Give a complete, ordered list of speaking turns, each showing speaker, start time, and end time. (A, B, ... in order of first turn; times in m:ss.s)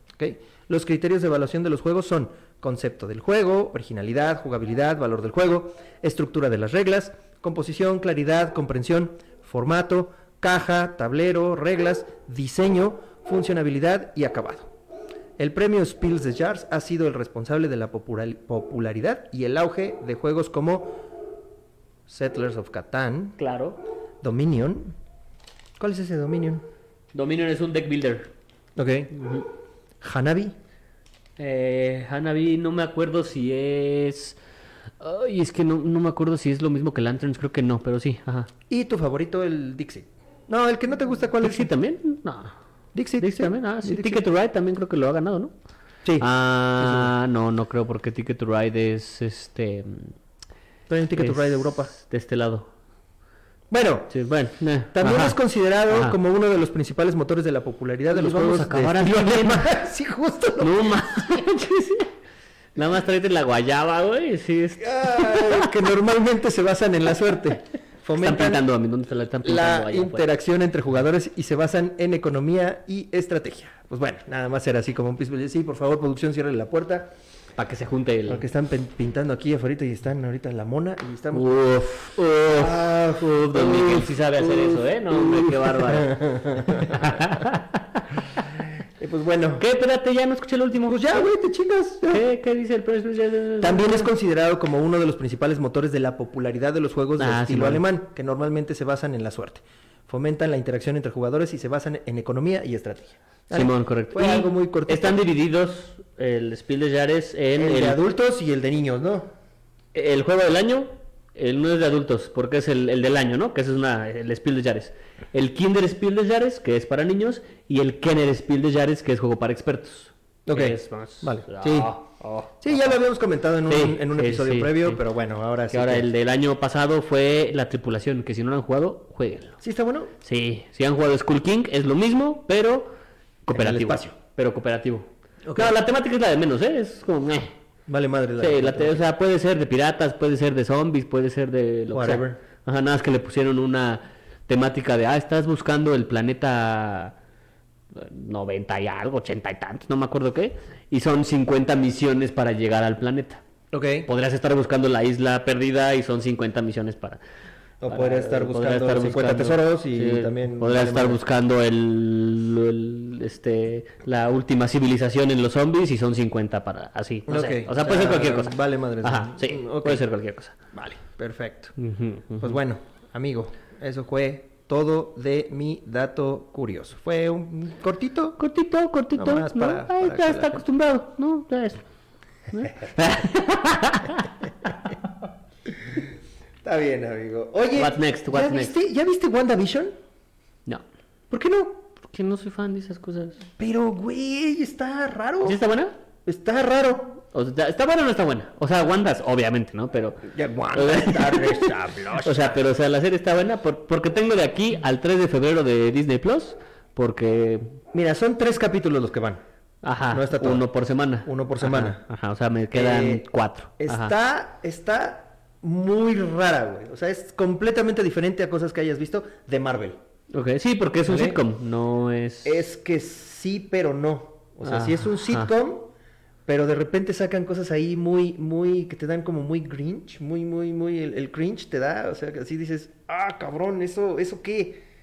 0:00.2-0:14.7 A
0:15.4-0:21.0 A
0:22.1-0:23.4 A
0:23.4-0:23.8 B
0:24.2-0:25.0 A
0:25.8-0:26.6 A
0:27.1-0:28.3 B
0:28.8-0:29.1 A
0:29.1-0:29.5 B
0:30.0-0:30.6 A
0:31.4-0:34.4 B
0:35.0-0:38.5 B
0:38.7-0:41.7 A
0:41.4-0:42.6 B
0:43.0-0:44.2 A
0:43.2-0:45.5 B
0:46.2-0:50.2 B
0:46.8-0:47.1 A
0:50.9-0:51.9 A
0:51.2-0:52.7 B
0:53.7-0:54.1 A
0:54.1-0:55.4 B
0:54.9-1:01.4 A
0:55.9-0:56.2 B
0:58.1-0:59.7 B
1:00.6-1:02.1 B
1:02.8-1:05.7 B
1:04.8-1:08.6 A
1:08.2-1:10.3 B
1:09.4-1:17.2 A
1:17.6-1:18.4 B
1:18.3-1:21.6 A
1:21.3-1:28.0 B
1:22.5-1:27.2 A
1:29.0-1:29.6 A
1:29.6-1:31.3 B
1:30.8-1:32.2 A
1:32.1-1:34.1 B
1:33.6-1:45.2 A
1:37.2-1:37.8 B
1:43.5-1:48.0 B
1:47.6-1:49.3 A
1:49.9-2:03.0 B
2:00.5-2:01.9 A
2:02.6-2:06.1 A
2:03.7-2:05.0 B
2:05.7-2:09.6 B
2:09.6-2:10.1 A
2:10.2-2:17.6 B
2:13.5-2:14.1 A
2:15.4-2:15.8 A
2:17.9-2:19.0 A
2:18.4-2:27.2 B
2:21.9-2:22.4 A
2:27.9-2:33.4 B
2:33.7-2:34.1 A
2:34.1-2:37.2 B
2:37.8-2:41.2 A
2:37.9-2:50.6 B
2:47.3-2:50.0 A
2:50.7-2:51.8 A
2:51.8-2:52.6 B
2:52.4-2:58.4 A
2:58.4-3:01.8 B
2:59.2-3:00.6 A
3:02.5-3:04.7 B
3:06.6-3:10.0 A
3:07.8-3:08.7 B
3:11.3-3:11.8 A
3:12.0-3:13.4 B
3:13.6-3:15.6 A
3:15.4-3:16.0 B
3:16.3-3:17.1 A
3:17.3-3:27.8 B
3:20.3-3:22.6 A
3:27.9-3:29.4 A
3:29.8-3:34.1 B
3:30.1-3:30.7 A
3:31.2-3:32.0 A
3:32.7-3:33.3 A
3:33.8-3:40.0 A
3:40.3-3:42.6 B
3:41.1-3:41.4 A
3:42.4-3:45.9 A
3:44.6-3:45.5 B
3:46.5-3:54.8 A